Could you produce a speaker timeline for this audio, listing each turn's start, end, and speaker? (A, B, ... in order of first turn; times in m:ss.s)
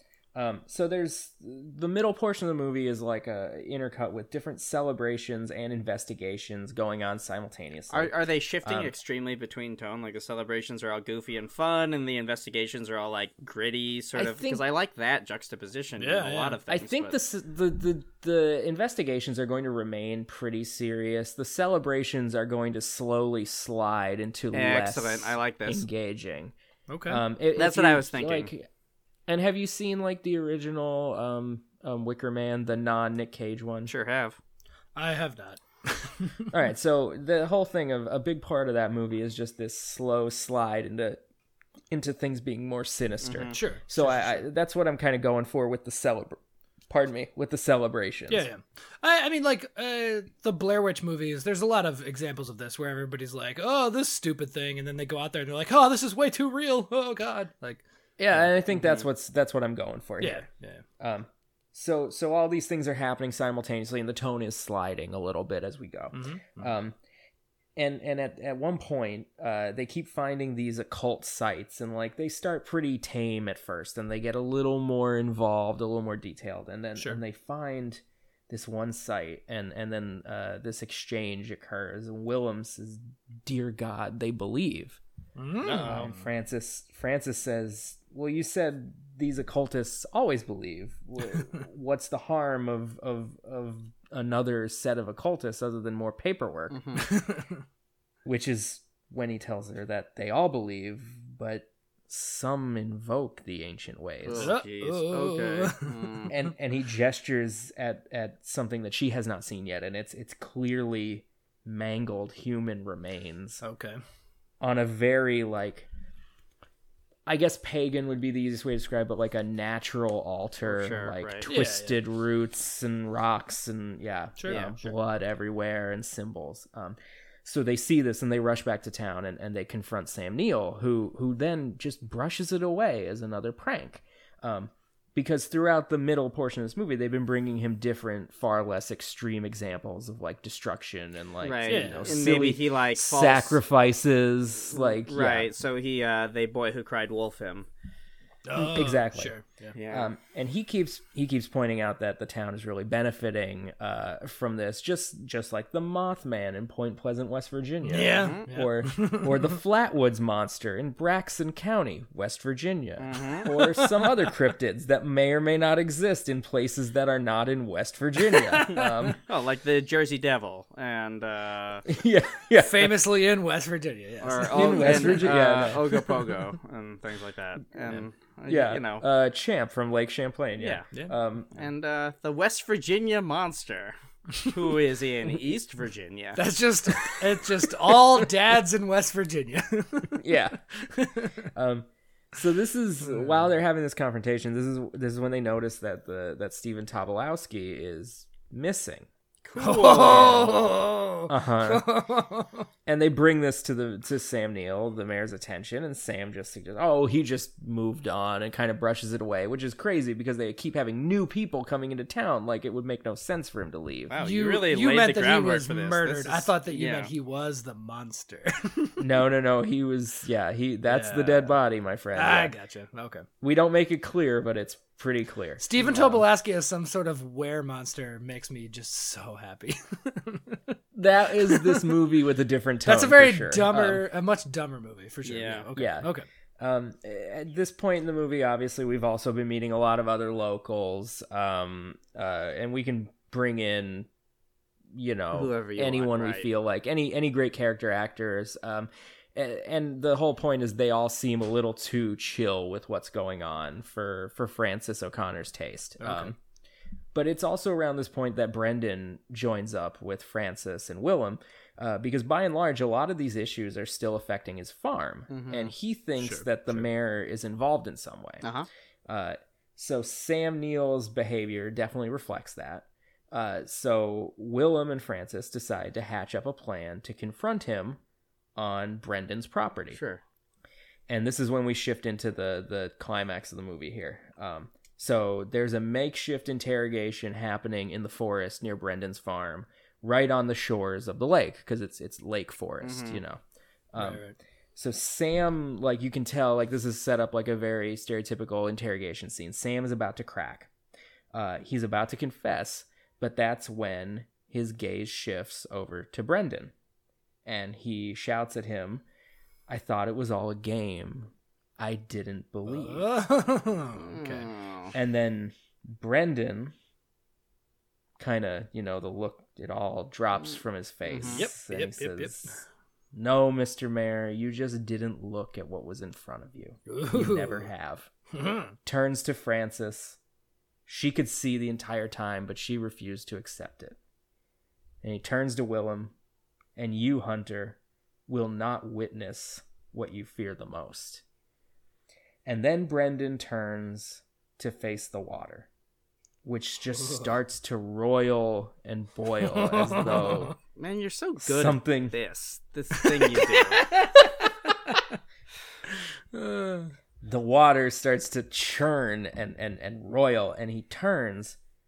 0:00.4-0:08.9 A
0:07.9-0:17.1 B
0:14.2-0:14.6 A
0:16.0-0:16.6 C
0:16.7-0:26.5 A
0:24.5-0:25.9 B
0:26.9-0:27.2 C
0:27.1-0:28.7 A
0:27.6-0:28.5 B
0:29.3-0:33.9 A
0:33.9-0:34.4 B
0:35.0-0:36.5 C
0:36.5-0:41.2 A
0:41.9-0:46.4 A
0:43.2-0:43.6 B
0:43.5-0:44.4 C
0:46.9-0:48.5 A
0:48.3-0:57.8 C
0:58.2-1:00.4 A
1:00.2-1:00.8 C
1:01.0-1:07.0 A
1:06.1-1:06.7 C
1:07.8-1:25.0 A
1:25.4-1:26.3 C
1:25.6-1:36.8 A
1:36.7-1:37.1 B
1:37.0-1:37.6 C
1:38.2-1:44.5 A
1:44.2-1:46.3 B
1:44.4-1:46.3 C
1:46.3-1:53.6 A
1:53.6-1:54.0 C
1:54.6-1:55.9 A
1:57.3-2:25.5 A
2:00.6-2:01.5 B
2:01.5-2:02.0 C
2:04.4-2:04.7 C
2:04.5-2:04.9 B
2:21.4-2:23.6 B
2:21.7-2:22.2 C
2:24.7-2:27.7 B
2:28.4-2:29.8 C
2:28.6-2:29.4 A
2:29.7-2:30.1 B
2:29.9-2:49.2 A
2:37.8-2:39.6 C
2:38.1-2:38.5 B
2:43.0-2:43.5 B
2:43.4-2:44.3 C
2:48.2-2:49.1 C
2:49.2-2:51.8 B
2:51.9-2:53.0 A
2:52.6-2:55.8 C
2:54.2-2:59.0 B
2:54.5-2:56.1 A
2:58.5-3:01.6 A
3:00.6-3:00.9 B
3:01.5-3:06.4 B
3:06.4-3:10.2 C
3:10.2-3:10.6 A
3:10.8-3:11.3 C
3:11.5-3:19.1 A
3:13.1-3:13.5 C
3:19.4-3:20.5 B
3:19.6-3:22.7 C
3:19.8-3:20.5 A
3:21.3-3:22.0 A
3:22.9-3:34.2 A
3:34.1-3:37.1 B
3:34.2-3:39.0 C
3:39.0-3:42.5 A
3:40.9-3:41.6 C
3:42.1-3:43.3 C
3:43.4-3:46.2 A
3:45.6-3:50.8 C
3:51.0-3:54.0 A
3:51.3-3:52.0 C
3:52.8-3:56.3 C
3:55.2-3:55.7 B
3:55.8-4:04.1 A
4:04.9-4:16.4 A
4:05.3-4:06.5 B
4:16.0-4:16.3 C
4:17.1-4:28.5 A
4:25.3-4:25.7 B
4:26.2-4:26.9 C
4:28.4-4:28.7 B
4:29.1-4:38.0 A
4:38.6-4:40.0 A
4:39.9-4:40.2 B
4:41.1-4:53.4 A
4:52.8-4:53.2 B
4:53.9-4:54.2 A
4:54.0-4:54.4 C
4:54.8-5:00.7 A
5:01.3-5:06.7 A
5:07.4-5:09.0 A
5:09.7-5:13.1 A
5:12.7-5:14.5 C
5:14.0-5:14.9 B
5:14.9-5:16.7 A
5:18.2-5:28.1 A
5:21.1-5:21.4 B
5:21.3-5:22.6 C
5:26.9-5:27.7 C
5:28.3-5:28.7 C
5:28.8-5:30.2 A
5:30.9-5:34.0 A
5:35.0-5:36.1 A
5:36.8-5:41.2 A
5:42.5-5:45.7 A
5:46.4-5:50.6 A
5:49.5-5:50.5 C
5:50.8-5:53.9 B
5:51.4-5:52.2 A
5:53.0-5:55.2 C
5:56.3-5:56.9 C
5:57.2-6:01.6 A